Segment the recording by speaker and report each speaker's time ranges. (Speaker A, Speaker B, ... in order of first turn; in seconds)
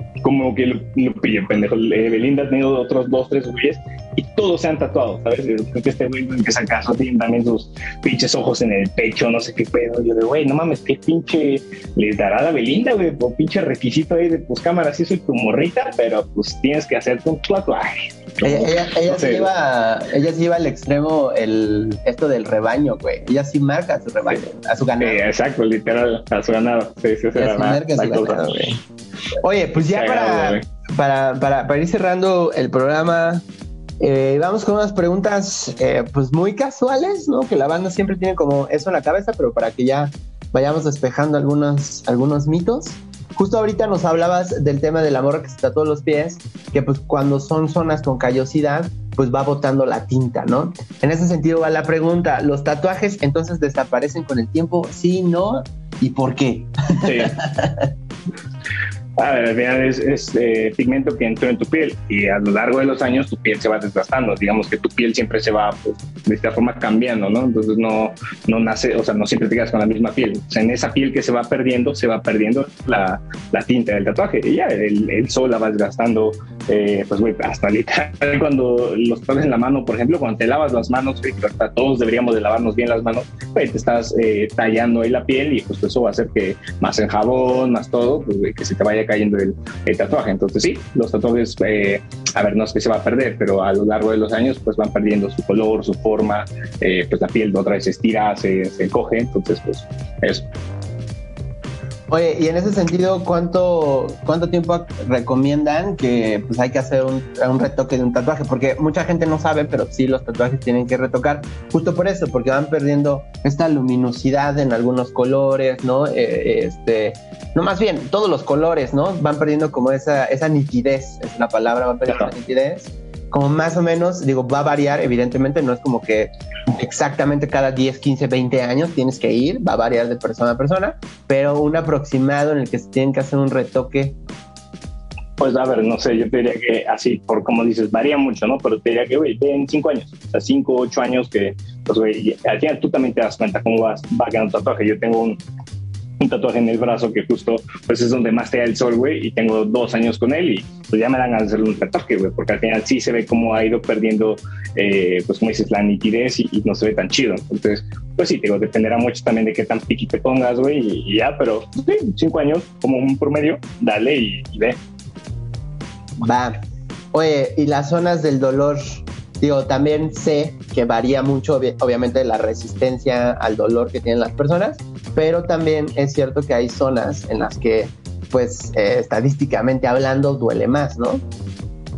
Speaker A: 0.2-19.5, 25.0-28.6, 29.8-30.6, 57.0-57.4, 59.2-100.5, 135.4-145.4, 146.2-164.8
Speaker B: 18.4-25.2, 27.3-28.8, 29.4-33.4, 34.0-57.9, 102.1-134.2, 166.2-166.6, 167.1-181.2